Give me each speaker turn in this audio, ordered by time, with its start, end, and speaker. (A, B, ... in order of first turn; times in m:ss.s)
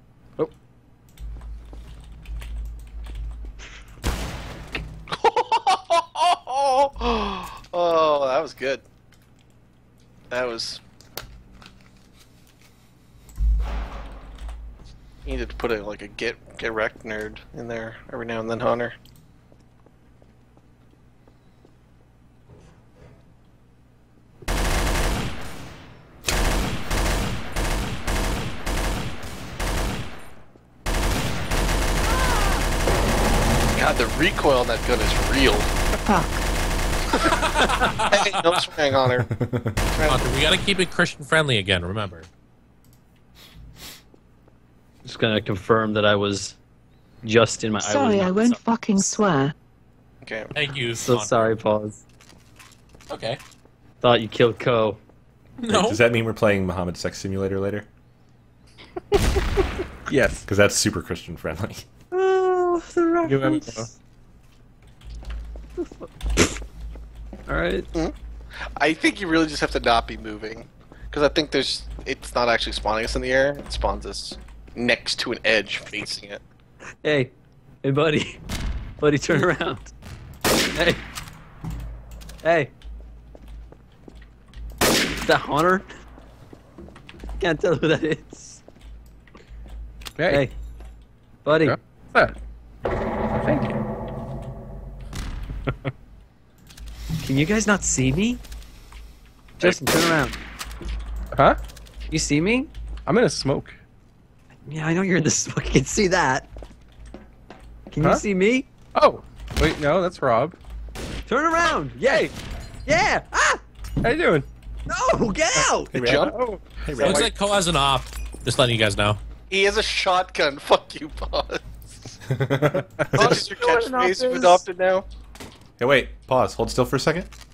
0:05.1-0:08.8 A
0:10.3-0:10.8 A
0:15.3-0:19.0 A
0:33.8-0:35.7 A
0:36.1-0:36.5 B
0:37.1-0:37.4 A
0:37.6-0:38.4 C
0:38.1-0:39.3 A
0:39.3-0:39.8 D
0:39.9-0:40.3 A
0:40.1-0:42.3 C
0:45.0-0:46.6 E
0:47.2-0:49.2 E
0:47.8-0:49.5 B
0:50.2-0:50.5 A
0:50.5-0:51.5 C
0:51.0-0:52.0 E
0:53.1-0:53.4 C
0:54.0-0:55.0 E
0:55.6-0:56.0 C
0:55.7-0:57.9 D
1:00.1-1:00.5 F
1:00.4-1:01.8 D
1:02.1-1:03.9 E
1:03.2-1:03.9 F
1:05.8-1:06.6 E
1:07.5-1:07.9 E
1:08.8-1:16.4 A
1:17.0-1:18.4 E
1:19.0-1:19.9 E
1:20.8-1:21.0 E
1:22.4-1:22.7 E
1:25.2-1:25.9 E
1:27.4-1:28.6 E
1:30.2-1:30.5 F
1:30.3-1:30.5 E
1:31.4-1:31.8 E
1:31.5-1:32.4 F
1:33.3-1:33.8 F
1:37.2-1:38.4 E
1:39.6-1:40.4 E
1:41.3-1:41.6 F
1:42.1-1:42.7 E
1:43.1-1:43.8 F
1:44.7-1:46.5 E
1:47.9-1:48.7 E
1:49.0-1:50.6 F
1:51.3-1:52.3 E
1:52.9-1:53.6 E
1:54.0-1:54.5 F
1:54.9-1:55.9 E
1:55.9-1:57.3 D
1:55.9-1:56.4 A
1:56.2-1:57.1 F
1:57.0-1:59.2 C
1:59.5-2:02.2 A
2:02.3-2:03.5 D
2:03.2-2:05.1 A
2:03.2-2:04.5 F
2:03.6-2:04.5 E
2:05.8-2:07.3 D